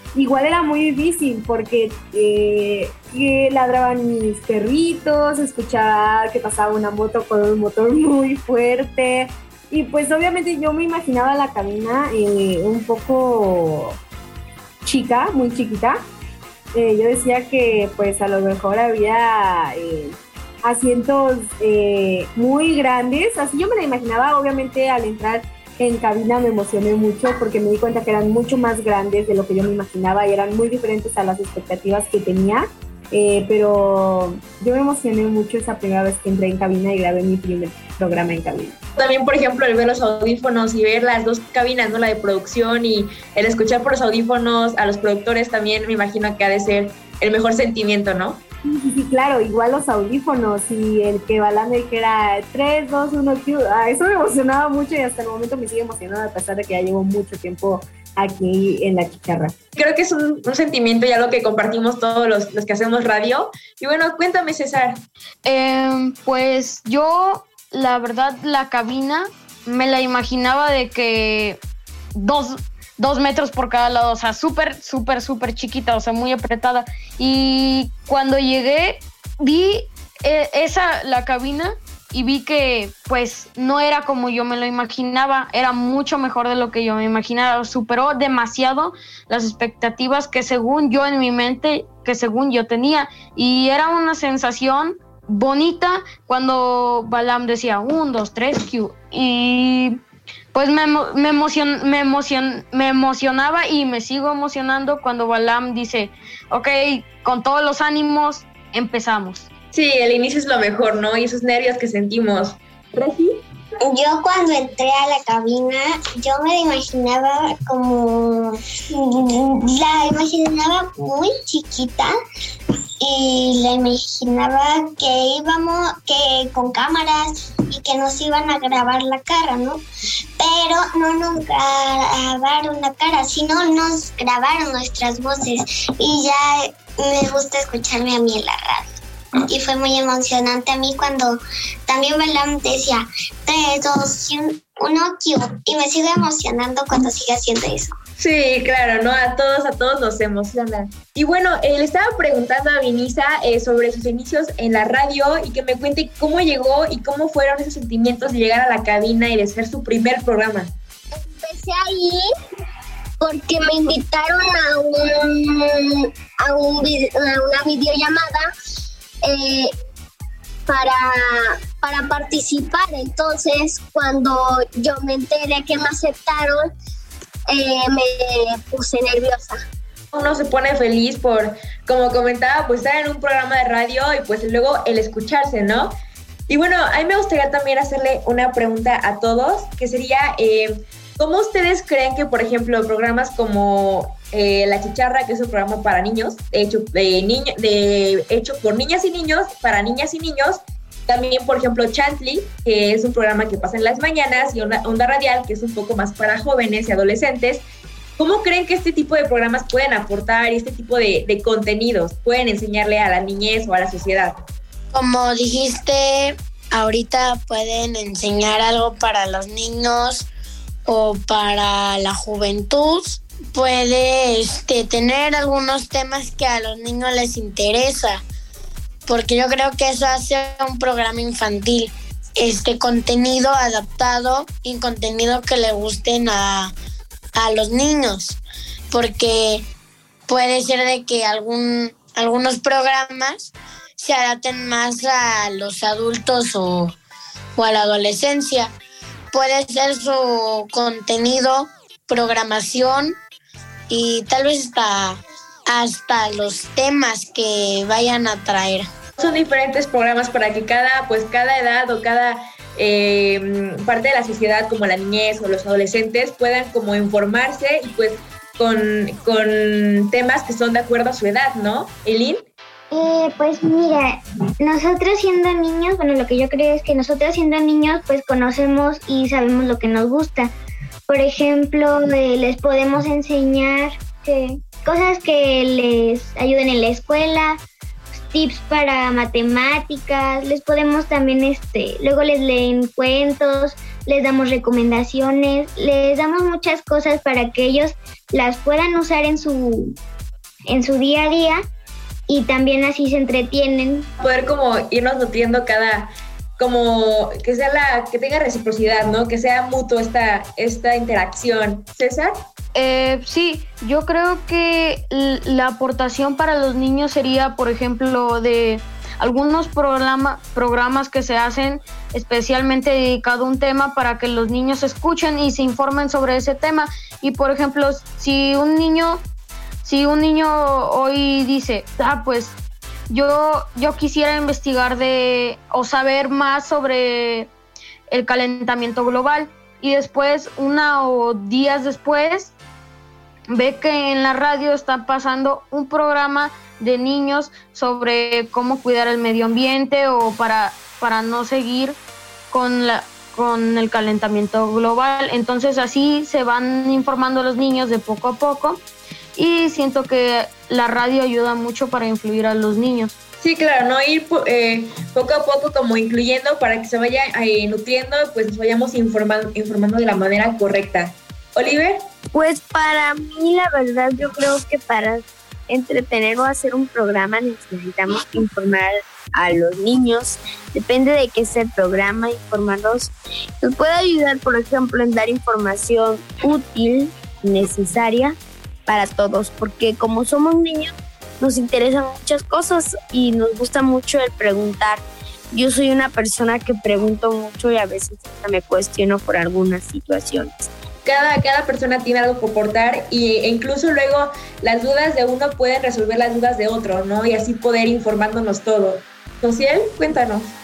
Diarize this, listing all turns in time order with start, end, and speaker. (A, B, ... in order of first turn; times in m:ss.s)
0:00.1-0:14.0 A
0:14.8-0:16.0 A
0:16.7-0:38.8 A
0:39.0-0:48.4 B
0:48.6-0:59.5 A
0:59.8-1:05.0 B
1:05.4-1:11.6 C
1:12.1-1:40.0 C
1:40.5-1:49.5 C
1:49.7-1:53.4 B
1:53.8-2:02.1 D
2:03.0-2:09.8 D
2:10.4-2:18.9 D
2:19.5-2:27.9 D
2:28.2-2:40.7 B
2:41.2-2:42.2 E
2:43.2-2:48.4 E
2:49.2-2:49.7 E
2:50.7-2:56.6 E
2:57.5-2:59.6 E
3:00.1-3:05.9 B
3:06.5-3:27.6 B
3:28.2-3:34.3 B
3:34.9-3:40.3 F
3:40.8-3:48.2 F
3:49.1-3:56.7 F
3:57.3-3:58.4 F
3:58.9-3:59.7 F
4:00.3-4:07.0 F
4:07.6-4:08.7 F
4:09.3-4:13.2 F
4:13.9-4:18.9 F
4:19.2-4:32.4 B
4:32.9-4:40.5 G
4:41.1-4:47.6 G
4:48.2-5:00.0 G
5:00.7-5:01.6 G
5:02.3-5:04.1 G
5:04.2-5:12.3 B
5:12.7-5:29.2 C
5:29.8-5:32.6 C
5:33.1-5:37.5 C
5:38.1-5:42.5 C
5:43.5-5:52.0 C
5:52.5-5:58.8 C
5:59.4-6:03.1 C
6:03.4-6:12.0 B
6:12.3-6:28.3 H
6:28.9-6:40.7 H
6:41.0-6:50.5 B